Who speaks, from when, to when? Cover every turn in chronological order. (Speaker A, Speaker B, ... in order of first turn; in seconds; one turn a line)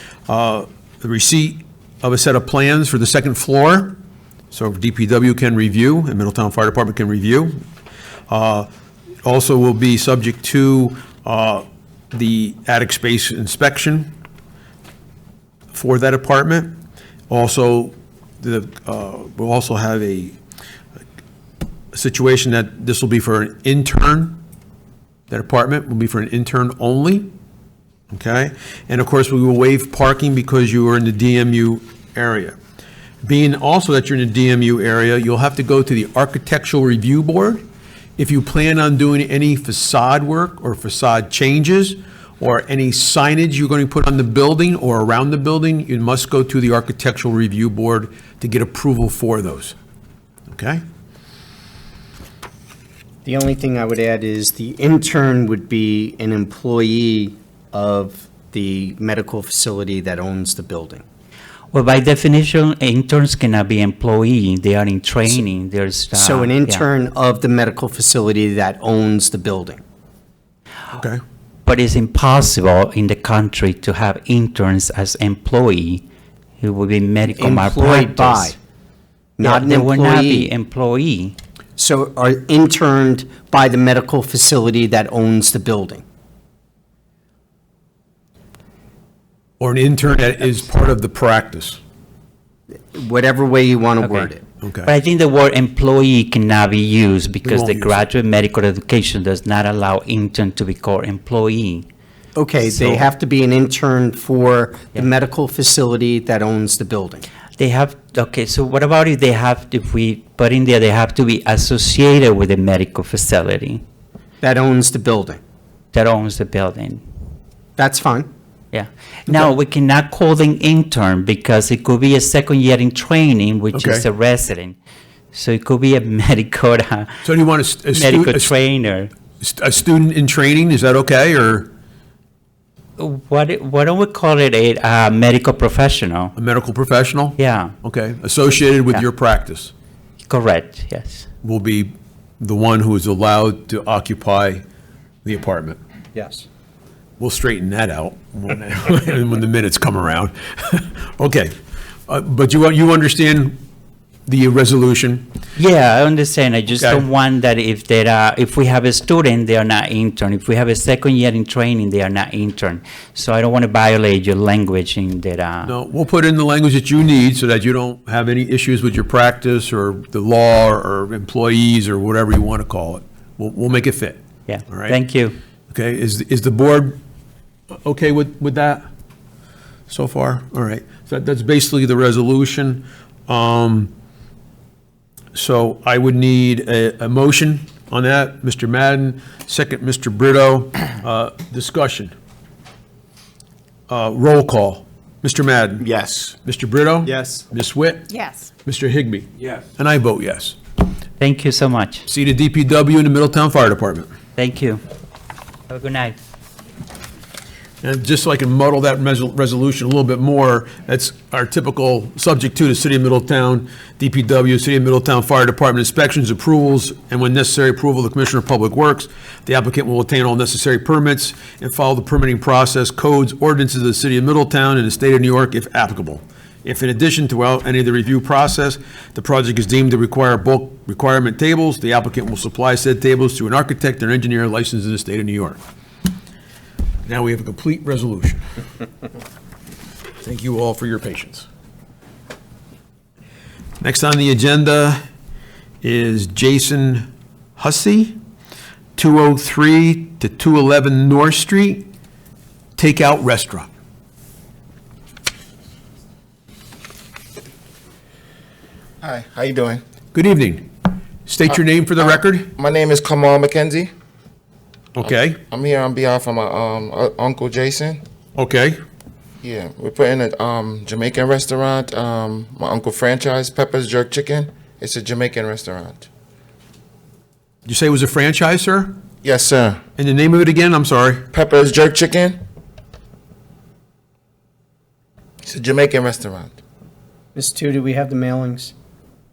Speaker A: 0.3-4.0
Speaker A: 4.5-7.6
Speaker A: 8.3-8.7
Speaker A: 9.2-14.1
Speaker A: 15.7-16.8
Speaker A: 17.3-20.4
Speaker A: 21.9-24.4
Speaker A: 25.3-27.3
Speaker A: 28.1-32.6
Speaker A: 33.2-37.6
Speaker A: 38.2-49.8
Speaker A: 50.5-50.8
Speaker B: 53.2-61.0
Speaker C: 61.7-66.8
Speaker B: 66.1-69.8
Speaker A: 70.9-71.2
Speaker C: 71.7-76.0
Speaker C: 76.6-78.5
Speaker B: 77.3-78.6
Speaker B: 79.4-80.5
Speaker C: 79.4-81.4
Speaker B: 81.8-86.0
Speaker A: 89.6-91.8
Speaker B: 92.9-94.4
Speaker C: 94.0-94.3
Speaker A: 94.6-94.9
Speaker C: 94.8-101.9
Speaker A: 97.5-98.0
Speaker B: 102.4-107.3
Speaker C: 107.6-113.8
Speaker B: 114.4-115.4
Speaker C: 115.9-117.0
Speaker B: 117.8-118.3
Speaker C: 118.7-124.8
Speaker A: 123.7-124.0
Speaker C: 125.3-127.2
Speaker A: 127.2-128.5
Speaker C: 127.9-129.1
Speaker A: 129.4-131.7
Speaker C: 133.0-136.3
Speaker A: 136.4-139.7
Speaker C: 137.4-137.7
Speaker C: 140.2-141.3
Speaker A: 141.4-144.6
Speaker A: 145.2-145.8
Speaker B: 146.2-146.5
Speaker A: 147.2-151.5
Speaker A: 152.1-153.6
Speaker A: 154.3-155.3
Speaker C: 155.6-165.7
Speaker A: 156.8-157.1
Speaker A: 165.7-175.0
Speaker C: 174.5-175.3
Speaker A: 175.7-177.0
Speaker A: 177.7-178.9
Speaker A: 179.9-183.9
Speaker A: 185.3-192.1
Speaker A: 193.9-195.9
Speaker B: 195.8-196.3
Speaker A: 196.4-198.1
Speaker B: 197.1-197.4
Speaker A: 198.6-200.6
Speaker C: 201.2-202.1
Speaker A: 202.1-204.1
Speaker C: 204.4-204.8
Speaker C: 205.7-206.2
Speaker A: 207.8-235.6
Speaker A: 237.1-238.4
Speaker A: 240.2-241.5
Speaker A: 243.8-245.0
Speaker A: 245.8-248.2
Speaker A: 249.0-251.9
Speaker A: 252.8-253.7
Speaker D: 259.0-259.8
Speaker A: 260.1-260.7
Speaker A: 261.2-262.5
Speaker D: 261.5-263.9
Speaker A: 265.0-265.4
Speaker D: 265.0-268.0
Speaker A: 268.4-268.8
Speaker D: 269.4-276.1
Speaker A: 277.6-279.0
Speaker D: 279.2-279.8
Speaker A: 280.0-281.3
Speaker D: 281.3-282.4
Speaker D: 285.4-286.6
Speaker B: 287.4-288.7